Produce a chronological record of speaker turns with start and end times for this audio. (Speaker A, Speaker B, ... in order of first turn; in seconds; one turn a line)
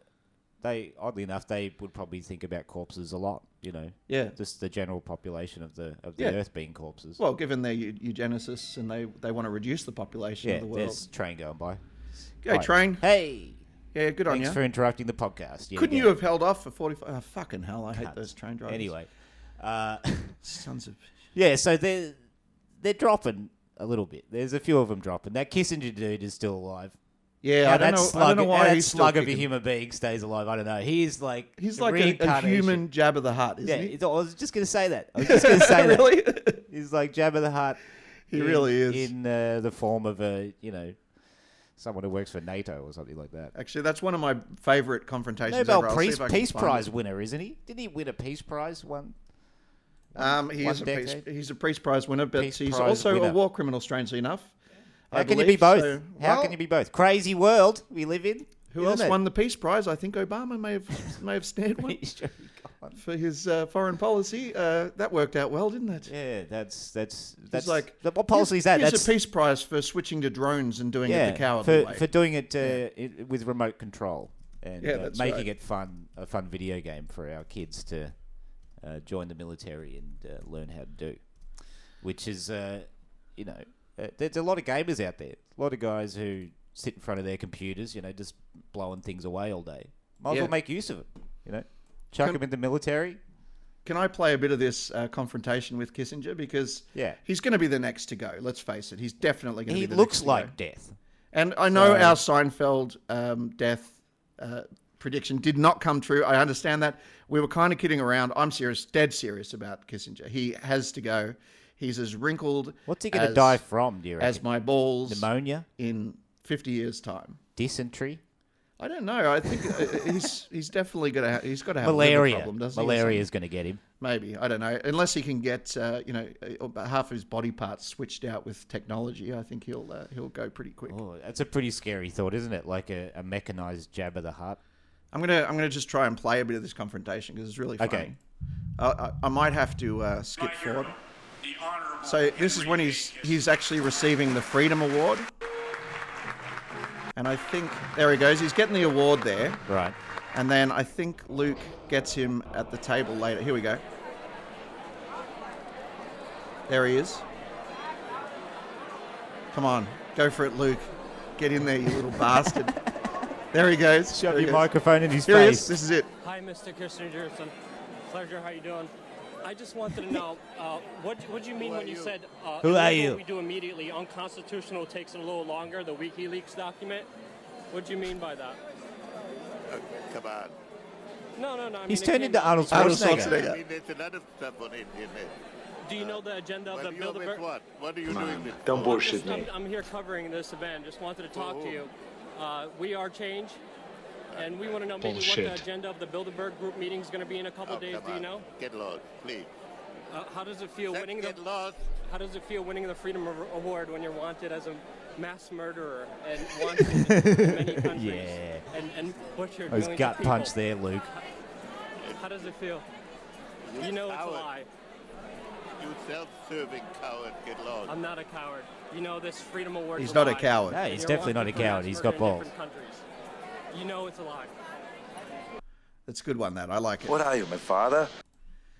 Speaker A: 0.6-7.2
Speaker B: 4.1-4.4
Speaker B: 7.2-11.1
Speaker A: 10.4-11.8
Speaker B: 12.4-13.0
Speaker A: 12.4-13.6
Speaker B: 13.9-14.6
Speaker A: 14.3-16.1
Speaker B: 15.7-18.9
Speaker A: 17.9-20.4
Speaker B: 20.4-21.1
Speaker A: 21.3-22.2
Speaker A: 22.8-26.9
Speaker B: 27.4-29.5
Speaker A: 27.6-32.9
Speaker B: 31.6-33.9
Speaker A: 33.6-37.8
Speaker B: 35.2-36.6
Speaker B: 38.3-39.1
Speaker A: 38.3-41.0
Speaker A: 41.7-43.5
Speaker B: 43.5-46.9
Speaker A: 45.5-49.1
Speaker A: 50.1-51.2
Speaker B: 50.1-54.5
Speaker A: 52.4-53.4
Speaker B: 55.1-56.6
Speaker A: 55.1-59.2
Speaker B: 58.7-62.0
Speaker A: 61.8-63.0
Speaker B: 63.0-66.1
Speaker A: 66.1-69.1
Speaker B: 67.5-72.8
Speaker A: 71.1-78.2
Speaker B: 74.8-75.5
Speaker A: 78.8-81.2
Speaker A: 82.0-93.2
Speaker B: 90.3-90.5
Speaker B: 93.8-100.5
Speaker A: 99.7-101.0
Speaker B: 101.3-113.6
Speaker A: 101.7-102.2
Speaker A: 112.9-114.4
Speaker B: 114.2-117.4
Speaker A: 115.0-115.7
Speaker A: 117.5-118.2
Speaker B: 118.8-123.3
Speaker A: 121.8-123.8
Speaker B: 124.0-131.0
Speaker A: 130.9-134.6
Speaker B: 135.1-138.2
Speaker A: 137.8-138.1
Speaker B: 138.8-141.0
Speaker B: 141.9-145.3
Speaker B: 147.1-149.6
Speaker A: 149.7-149.9
Speaker B: 150.3-153.8
Speaker B: 156.7-157.2
Speaker B: 159.5-162.8
Speaker A: 162.2-162.9
Speaker B: 163.5-164.7
Speaker A: 164.1-165.7
Speaker B: 165.2-166.1
Speaker C: 166.2-167.5
Speaker C: 168.1-168.9
Speaker C: 169.4-177.1
Speaker D: 171.5-172.1
Speaker A: 172.6-173.2
Speaker C: 177.7-178.6
Speaker D: 179.7-180.5
Speaker C: 181.3-183.2
Speaker A: 181.9-183.4
Speaker B: 182.7-183.6
Speaker D: 182.9-185.4
Speaker C: 185.8-187.4
Speaker D: 185.9-189.2
Speaker E: 188.1-189.5
Speaker C: 188.8-193.6
Speaker D: 191.3-191.9
Speaker D: 194.3-194.9
Speaker C: 194.3-198.4
Speaker E: 195.0-195.6
Speaker D: 197.7-199.5
Speaker C: 200.1-201.4
Speaker D: 200.9-201.8
Speaker C: 202.1-210.5
Speaker A: 206.9-208.7
Speaker A: 209.7-211.1
Speaker D: 212.0-212.5
Speaker C: 212.2-212.8
Speaker D: 213.7-214.5
Speaker C: 213.8-214.7
Speaker D: 215.8-218.0
Speaker C: 217.9-223.0
Speaker B: 219.9-220.8
Speaker A: 220.7-222.5
Speaker C: 223.7-224.5
Speaker B: 226.1-227.2
Speaker E: 227.1-228.1